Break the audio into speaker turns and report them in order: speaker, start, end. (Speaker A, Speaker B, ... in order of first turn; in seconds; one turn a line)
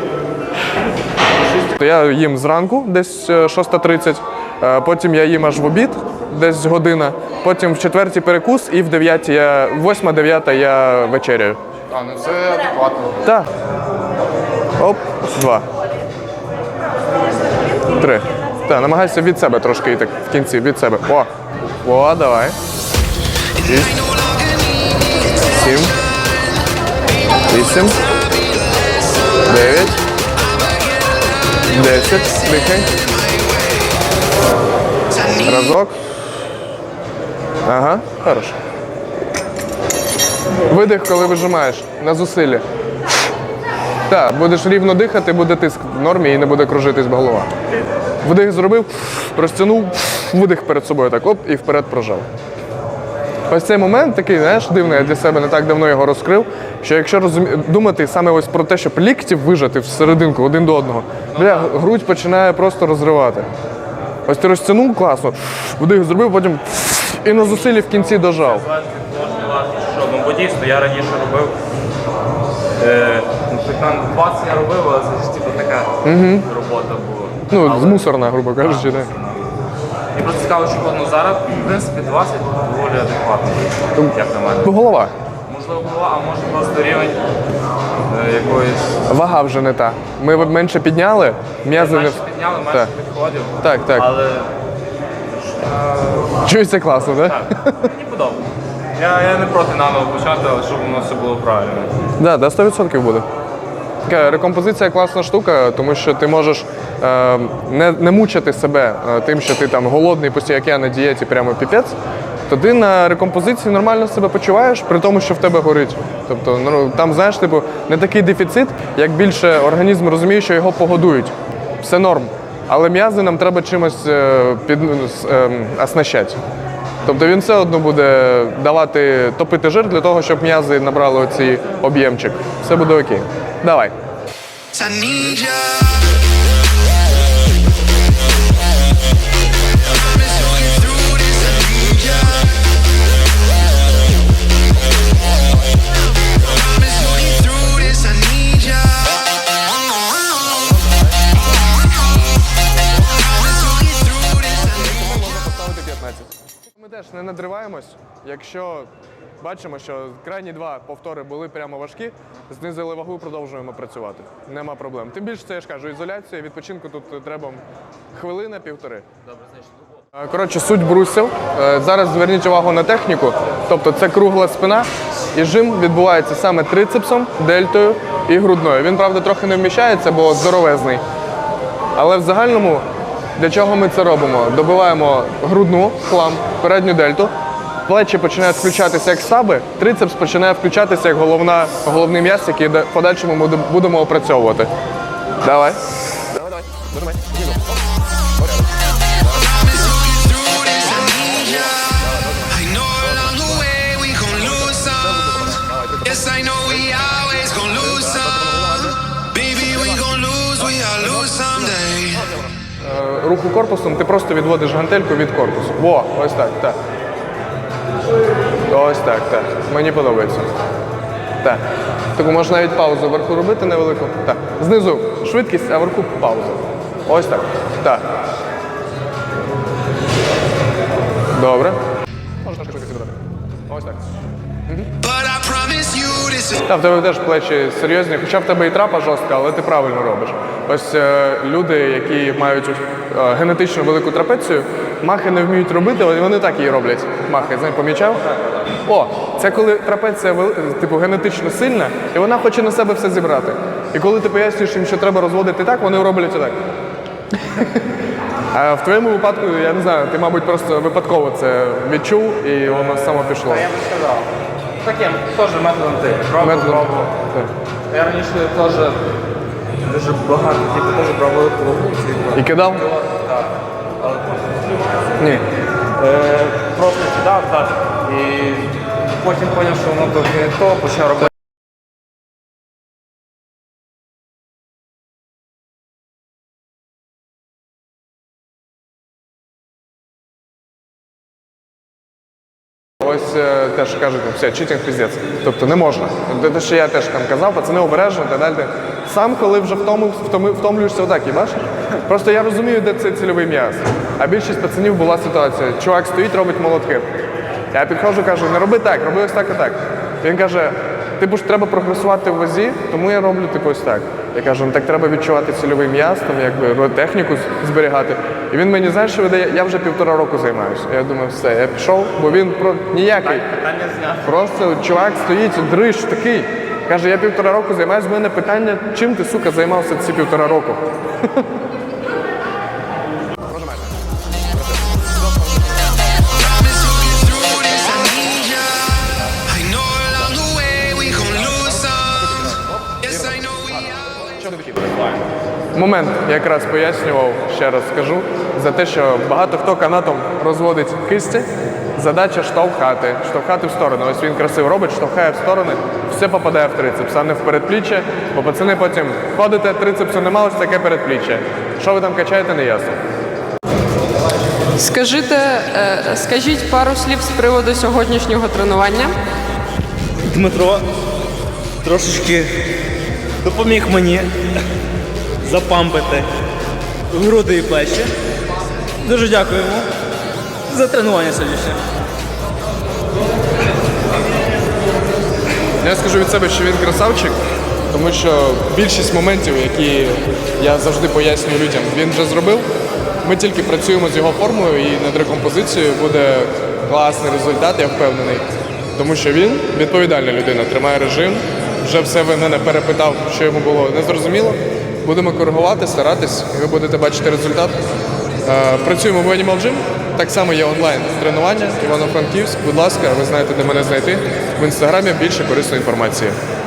Speaker A: 1.6-11.6
Speaker B: 11.9-13.2
Speaker A: 13.2-13.5
Speaker A: 14.8-15.7
Speaker A: 17.9-21.3
Speaker A: 21.8-22.6
Speaker A: 23.6-24.2
Speaker A: 25.3-25.9
Speaker A: 27.5-28.1
Speaker A: 29.4-30.0
Speaker A: 31.6-33.1
Speaker A: 35.3-36.0
Speaker A: 37.6-38.5
Speaker A: 40.6-42.6
Speaker A: 44.1-47.5
Speaker A: 48.2-52.3
Speaker A: 53.5-63.5
Speaker B: 61.3-61.9
Speaker A: 64.3-68.7
Speaker B: 67.3-71.5
Speaker B: 72.8-79.4
Speaker A: 76.0-76.5
Speaker A: 77.5-79.1
Speaker B: 80.1-84.8
Speaker A: 84.0-85.1
Speaker B: 85.5-87.2
Speaker B: 88.1-89.1
Speaker A: 89.1-92.9
Speaker B: 91.7-94.5
Speaker A: 93.6-94.1
Speaker B: 95.3-101.9
Speaker A: 96.4-97.8
Speaker A: 102.2-103.2
Speaker A: 104.0-111.9
Speaker A: 112.5-126.4
Speaker A: 127.0-133.9
Speaker C: 134.7-135.7
Speaker A: 147.1-148.1
Speaker A: 154.3-158.9
Speaker A: 159.4-169.1
Speaker B: 169.3-169.7
Speaker A: 170.2-181.0
Speaker A: 181.9-182.8
Speaker A: 183.4-187.3
Speaker A: 187.8-194.7
Speaker A: 195.4-195.8
Speaker A: 196.3-197.8
Speaker A: 198.4-198.7
Speaker A: 199.2-212.2
Speaker C: 203.7-204.2
Speaker C: 210.4-212.0
Speaker A: 212.8-216.8
Speaker A: 218.7-220.5
Speaker A: 222.1-228.1
Speaker A: 231.3-231.8
Speaker A: 232.4-234.1
Speaker A: 234.7-234.9
Speaker C: 235.1-236.5
Speaker A: 236.6-248.2
Speaker A: 248.8-256.6
Speaker A: 258.5-263.7
Speaker B: 263.1-264.3
Speaker B: 264.8-267.1
Speaker A: 266.4-267.5
Speaker B: 267.9-269.0
Speaker B: 269.8-275.4
Speaker A: 272.3-272.8
Speaker B: 275.9-281.3
Speaker A: 293.0-307.1
Speaker A: 307.7-323.5
Speaker B: 323.5-324.2
Speaker A: 324.2-330.8
Speaker A: 333.4-333.9
Speaker A: 334.5-335.9
Speaker A: 336.7-338.6
Speaker C: 339.6-339.9
Speaker A: 339.9-345.0
Speaker A: 345.7-363.0
Speaker D: 364.8-369.2
Speaker E: 370.2-370.9
Speaker E: 371.8-372.6
Speaker E: 373.4-374.3
Speaker E: 375.4-376.3
Speaker E: 377.1-378.1
Speaker E: 379.0-379.9
Speaker E: 380.7-381.8
Speaker A: 385.8-387.4
Speaker A: 387.9-392.7
Speaker A: 393.2-407.8
Speaker A: 408.4-416.4